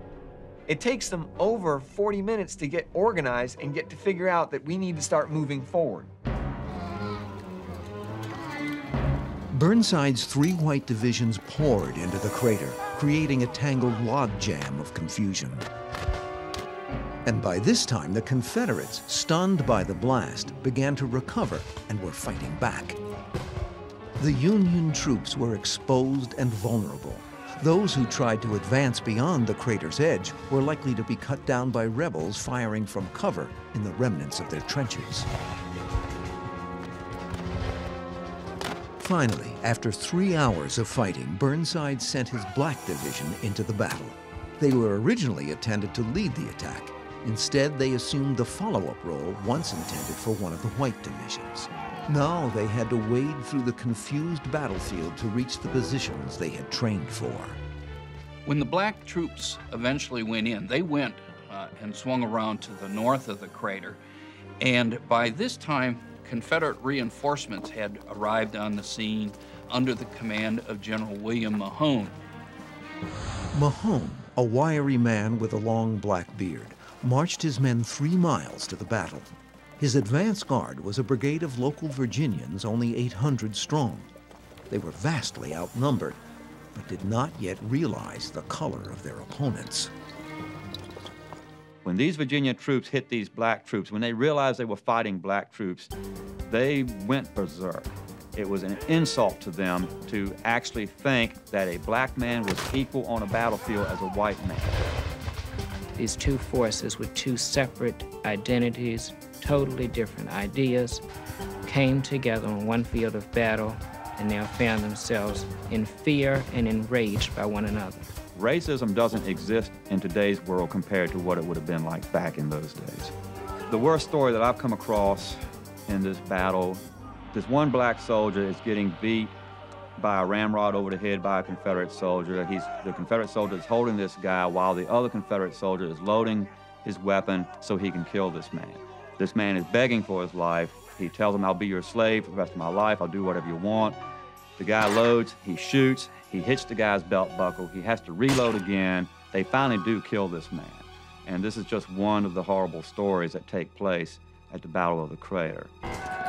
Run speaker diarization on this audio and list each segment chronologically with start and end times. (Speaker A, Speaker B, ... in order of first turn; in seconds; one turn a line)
Speaker A: 0.7-6.1
Speaker B: 9.5-15.7
Speaker B: 17.2-23.0
Speaker B: 24.2-35.3
Speaker B: 39.0-57.6
Speaker C: 58.4-64.0
Speaker C: 64.6-72.2
Speaker B: 73.5-84.1
Speaker B: 84.7-86.2
Speaker B: 86.7-89.9
Speaker D: 91.8-95.9
Speaker D: 96.5-104.8
Speaker E: 106.0-111.0
Speaker E: 111.7-118.1
Speaker D: 118.3-123.1
Speaker D: 123.7-129.3
Speaker D: 130.0-144.0
Speaker D: 144.6-155.7